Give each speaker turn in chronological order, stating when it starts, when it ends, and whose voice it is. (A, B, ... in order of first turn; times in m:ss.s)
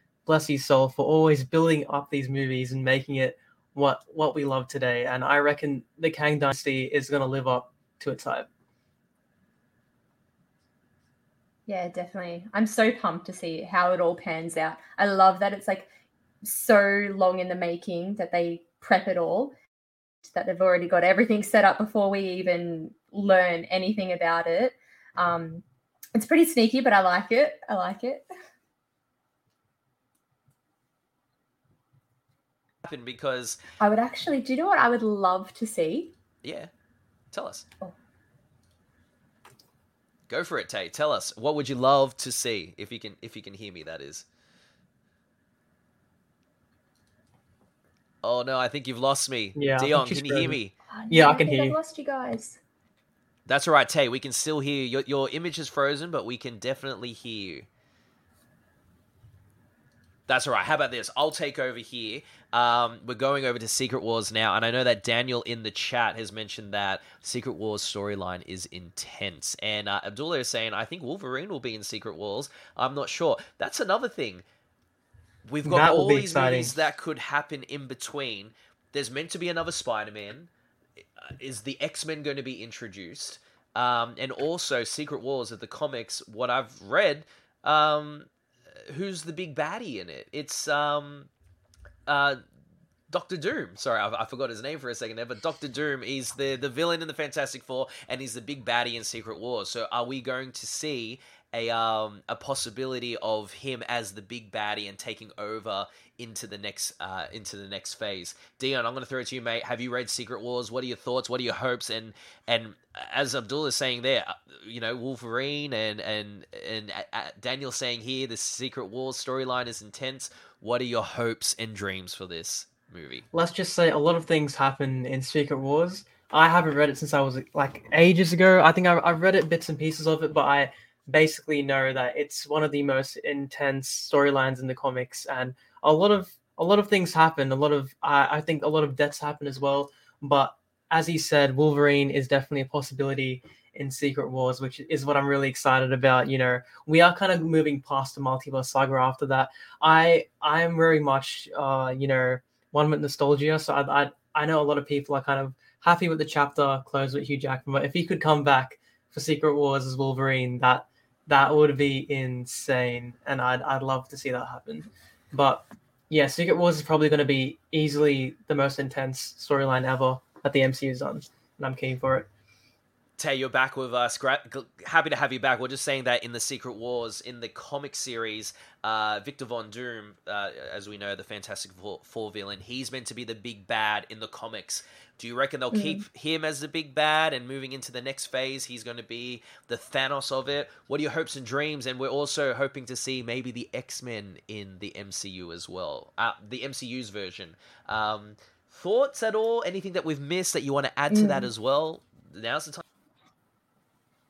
0:00.3-0:08.5 A
0:11.7-0:15.9 B
0:16.4-0:19.6 B
0:20.2-0:25.6 B
0:26.2-0:28.3 B
0:32.8-0:33.6 C
0:33.8-0:36.1 B
0:36.4-0:36.7 C
0:37.3-0:37.7 C
0:40.3-0:44.3 C
0:48.2-0:50.7 C
0:49.6-0:50.6 A
0:50.9-0:52.6 B
0:51.1-0:51.8 A
0:53.5-0:57.7 C
1:00.3-1:14.4 C
1:15.4-1:20.5 C
1:15.6-1:16.8 A
1:21.2-1:28.3 C
1:28.9-1:31.3 C
1:32.1-1:32.4 C
1:33.1-2:03.3 C
2:03.3-2:52.3 A
2:53.2-3:22.8 C
3:05.7-3:06.0 B
3:21.1-3:21.5 B